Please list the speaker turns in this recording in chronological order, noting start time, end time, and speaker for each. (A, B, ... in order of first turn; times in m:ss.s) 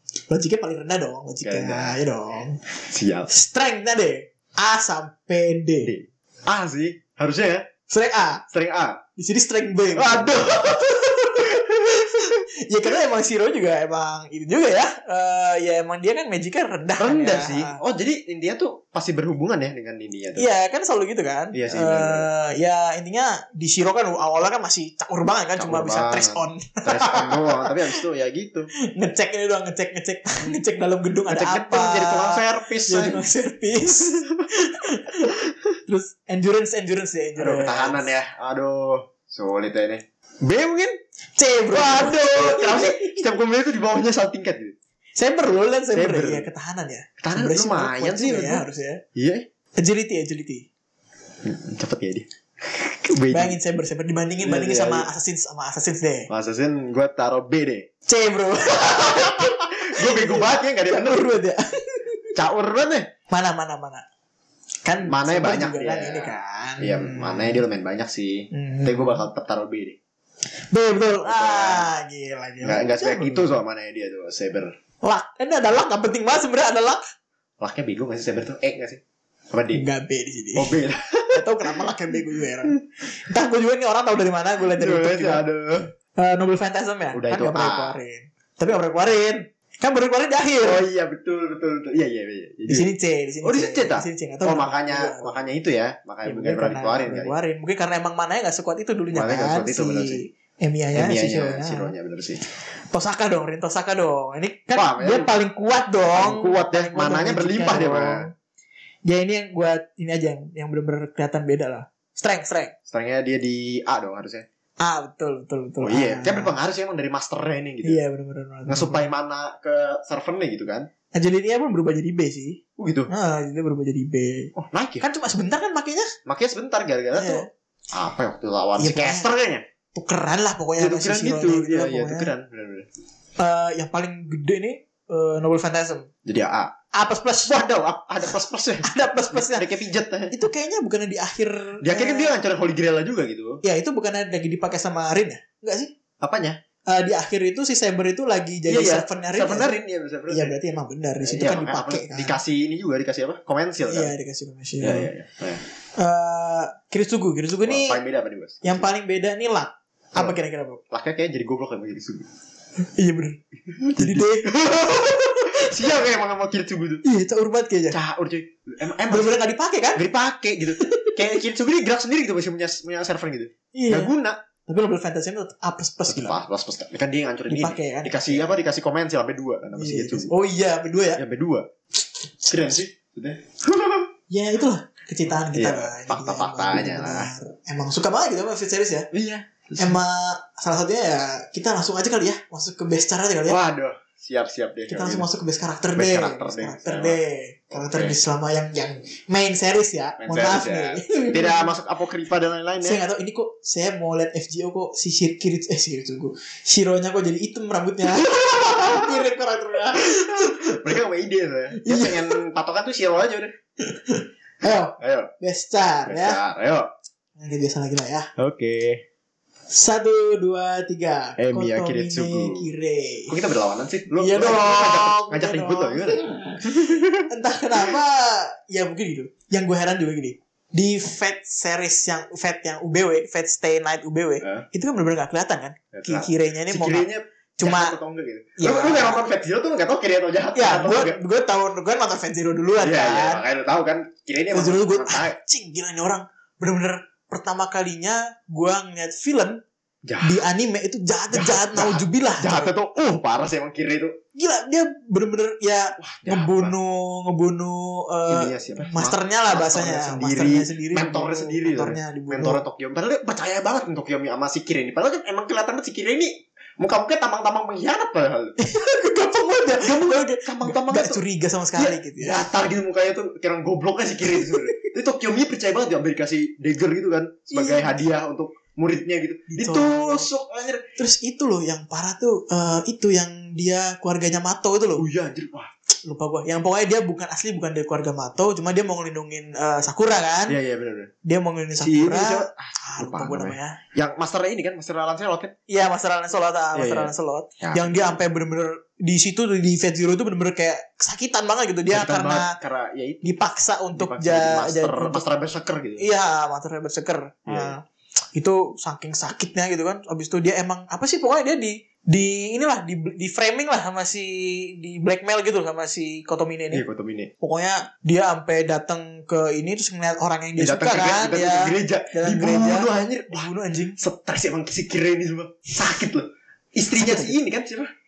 0:00.3-0:02.6 A
0:01.4-0:02.0 B
0:02.8-0:03.3 B
0:03.3-0:05.9 A
0:05.8-0:07.7 B
0:07.9-0:08.4 A
0:08.5-0:09.0 B
0:09.2-0:17.8 A
0:10.0-0:12.4 B
0:17.0-0:20.5 B
0:20.4-0:28.0 A
0:21.5-0:22.3 B
0:25.6-0:28.7 B
0:28.8-0:38.1 A
0:31.3-0:33.3 B
0:33.9-0:34.5 B
0:37.4-0:41.0 B
0:41.4-0:43.2 A
0:41.7-0:44.8 B
0:45.2-0:49.0 A
0:45.9-0:46.5 B
0:47.2-0:49.5 B
0:49.8-0:50.7 A
0:51.4-0:53.6 B
0:53.3-0:56.3 A
0:54.4-0:55.1 B
0:56.3-0:57.9 B
0:58.1-1:02.4 A
0:58.7-1:01.3 B
1:02.4-1:03.1 B
1:03.3-1:04.0 A
1:04.8-1:07.6 A
1:05.0-1:10.0 B
1:08.5-1:09.2 A
1:10.7-1:13.6 A
1:11.2-1:11.9 B
1:12.6-1:14.7 B
1:15.0-1:17.0 A
1:17.6-1:19.8 B
1:19.7-1:20.8 A
1:20.6-1:21.7 B
1:21.3-1:25.4 A
1:24.7-1:25.9 B
1:26.2-1:30.8 A
1:27.1-1:28.0 B
1:30.6-1:32.9 B
1:32.7-1:35.4 A
1:33.4-1:37.4 B
1:36.2-1:41.9 A
1:39.1-1:40.2 B
1:40.9-1:42.4 B
1:42.9-1:48.3 A
1:44.7-1:45.3 B
1:46.1-1:48.2 B
1:49.1-1:52.7 A
1:52.9-1:54.5 B
1:54.8-1:56.6 A
1:55.8-1:58.0 B
1:57.8-1:59.0 A
1:58.7-2:00.9 B
2:01.1-2:06.1 A
2:02.8-2:03.1 B
2:04.6-2:05.1 B
2:06.3-2:09.6 B
2:07.2-2:07.5 A
2:08.8-2:09.3 A
2:09.9-2:12.3 A
2:10.8-2:12.9 B
2:13.4-2:16.1 A
2:16.2-2:16.7 B
2:16.9-2:17.6 A
2:17.5-2:20.4 B
2:18.8-2:19.7 A
2:20.3-2:22.4 A
2:21.8-2:23.6 B
2:23.6-2:25.9 A
2:26.2-2:26.6 B
2:26.9-2:29.8 A
2:28.7-2:30.6 B
2:30.3-2:32.4 A
2:31.2-2:34.1 B
2:33.9-2:35.1 A
2:34.8-2:35.6 B
2:36.0-2:38.0 A
2:37.6-2:38.9 B
2:38.6-2:40.8 A
2:40.9-2:42.3 B
2:42.8-2:43.4 A
2:43.7-2:47.0 B
2:44.0-2:45.8 A
2:47.0-2:48.0 A
2:47.9-2:49.4 B
2:49.1-2:50.0 A
2:50.0-2:54.4 B
2:50.8-2:51.2 A
2:53.7-2:54.1 A
2:54.7-2:56.4 A
2:56.1-3:00.3 B
2:57.5-2:58.5 A
2:59.8-3:01.2 A
3:01.2-3:01.7 B
3:02.4-3:04.1 B
3:04.3-3:09.1 A
3:05.4-3:07.3 B
3:09.1-3:10.0 B
3:09.8-3:13.6 A
3:13.5-3:15.3 B
3:14.9-3:21.7 A
3:16.0-3:17.2 B
3:17.7-3:18.2 B
3:20.2-3:23.0 B
3:22.8-3:30.9 A
3:28.4-3:29.1 B
3:30.0-3:33.5 B
3:31.7-3:32.4 A
3:33.8-3:36.4 A
3:35.0-3:35.3 B
3:36.1-3:36.9 B
3:37.4-3:38.3 A
3:38.4-3:39.0 B
3:39.7-3:43.4 A
3:41.4-3:42.7 B
3:43.3-3:47.3 B
3:44.2-3:58.0 A
3:55.9-4:01.2 B
3:58.6-3:59.2 A
4:00.6-4:03.4 A
4:02.8-4:05.4 B
4:04.5-4:09.6 A
4:10.0-4:10.4 B
4:10.2-4:12.7 A
4:11.3-4:14.2 B
4:14.4-4:22.6 A
4:16.0-4:16.8 B
4:18.3-4:28.6 B
4:28.6-4:32.5 A
4:29.8-4:31.2 B
4:31.8-4:40.8 B
4:34.3-4:34.9 A
4:37.5-4:38.0 A
4:39.5-4:40.3 A
4:41.0-4:45.1 A
4:45.0-4:45.7 B
4:46.0-4:50.6 A
4:50.5-4:51.1 B
4:51.2-4:53.8 A
4:51.8-4:55.5 B
4:55.7-5:02.6 A
4:56.8-4:58.2 B
5:01.9-5:03.4 B
5:03.2-5:05.2 A
5:03.9-5:06.1 B
5:06.0-5:07.8 A
5:07.5-5:07.7 B
5:08.4-5:16.8 A
5:16.7-5:17.3 B
5:17.4-5:24.0 A
5:20.6-5:27.9 B
5:27.0-5:27.4 A